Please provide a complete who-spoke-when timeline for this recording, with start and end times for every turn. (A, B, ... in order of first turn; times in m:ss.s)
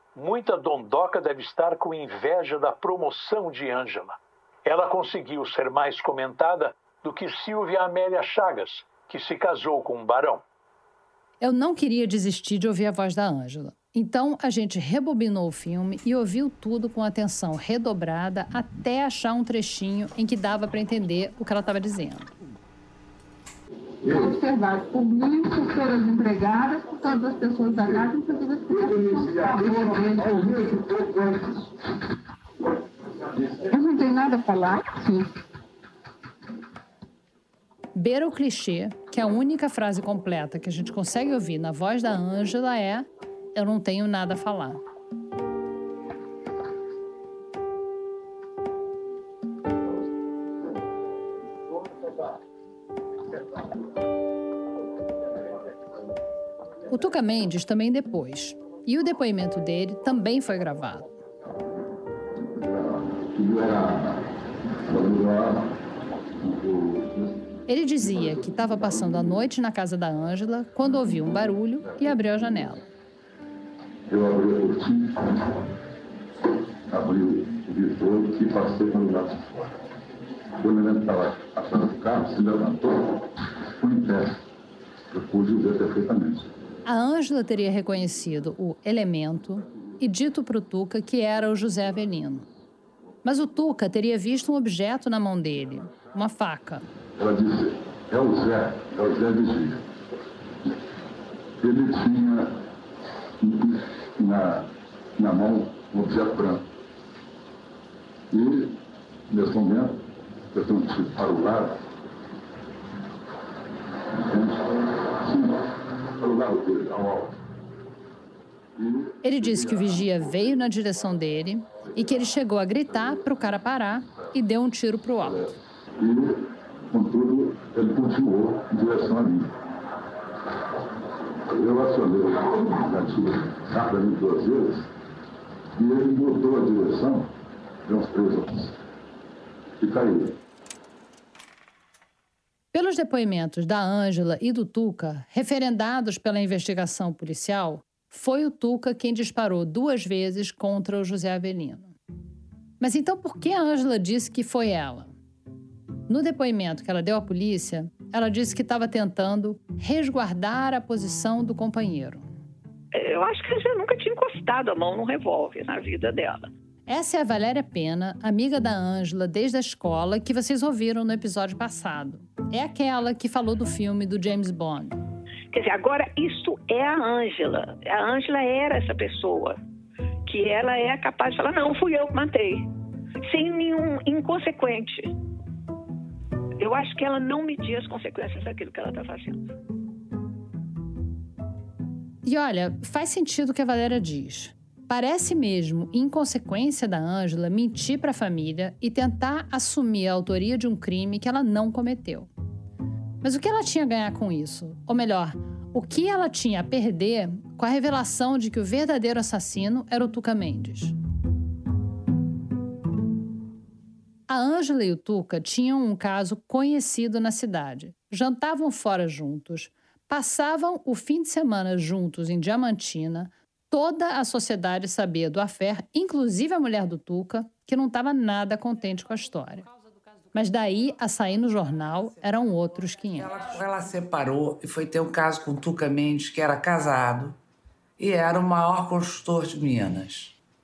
0:00.2-0:10.4 A
0:11.4-0:22.3 B
0:24.0-0:30.7 C
0:29.0-0:31.5 D
0:33.7-0:35.3 C
0:37.9-0:44.8 B
0:56.9-1:01.1 B
1:02.5-1:04.3 D
1:04.8-1:05.8 D
1:06.4-1:07.4 D
1:07.7-1:12.8 B
1:14.1-1:15.6 D
1:16.9-1:19.5 D
1:20.6-1:24.4 D
1:25.1-1:26.5 D
1:26.8-1:32.5 B
1:33.2-1:36.9 B
1:37.2-1:39.8 D
1:41.6-1:42.6 D
1:43.4-1:46.6 D
1:48.3-1:48.8 D
1:49.3-1:51.8 D
1:54.2-1:57.4 D
1:58.8-2:00.0 D
1:59.2-2:05.5 B
2:06.0-2:09.6 D
2:11.5-2:14.9 D
2:15.7-2:17.3 D
2:17.8-2:18.8 D
2:19.8-2:20.4 D
2:22.7-2:31.9 B
2:32.8-2:35.1 B
2:36.1-2:42.3 B
2:42.9-2:46.5 E
2:46.9-2:55.0 B
2:55.5-2:59.6 E
3:00.3-3:02.7 E
3:03.2-3:05.2 E
3:06.6-3:09.5 E
3:12.2-3:22.3 B
3:23.2-3:30.9 B
3:34.3-3:49.7 B
3:50.3-3:53.4 B
3:53.2-3:57.4 F
3:58.0-4:00.4 F